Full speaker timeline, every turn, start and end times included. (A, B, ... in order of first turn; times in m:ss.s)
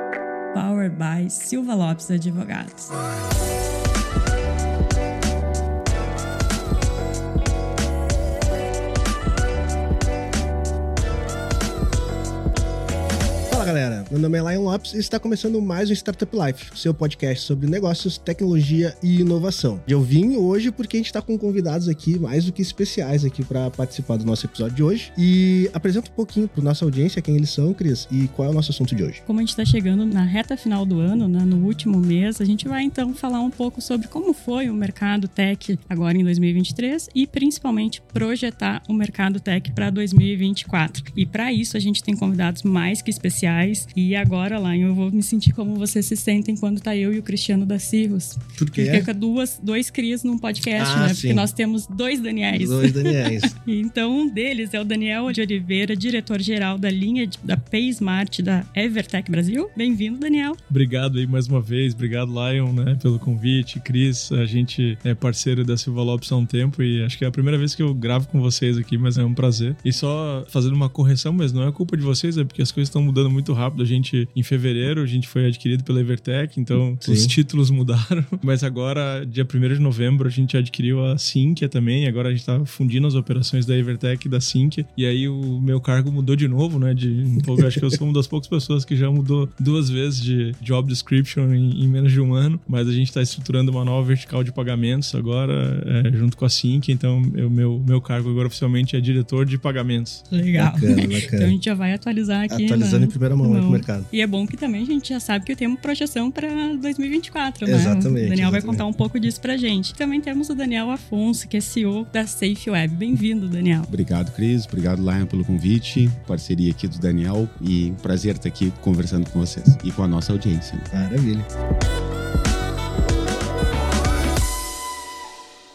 0:00.5-0:03.0 A
0:13.5-0:29.2 B
0:29.3-1:00.6 A
0:48.6-0:49.1 B
0:50.7-0:51.5 B
0:52.5-0:53.5 B
1:00.7-1:40.2 C
1:17.0-1:17.3 B
1:27.6-1:27.9 B
1:40.3-1:53.9 A
1:40.6-1:41.6 B
1:42.5-1:44.1 B
1:47.7-1:48.8 B
1:53.9-2:00.9 D
2:00.9-2:01.5 B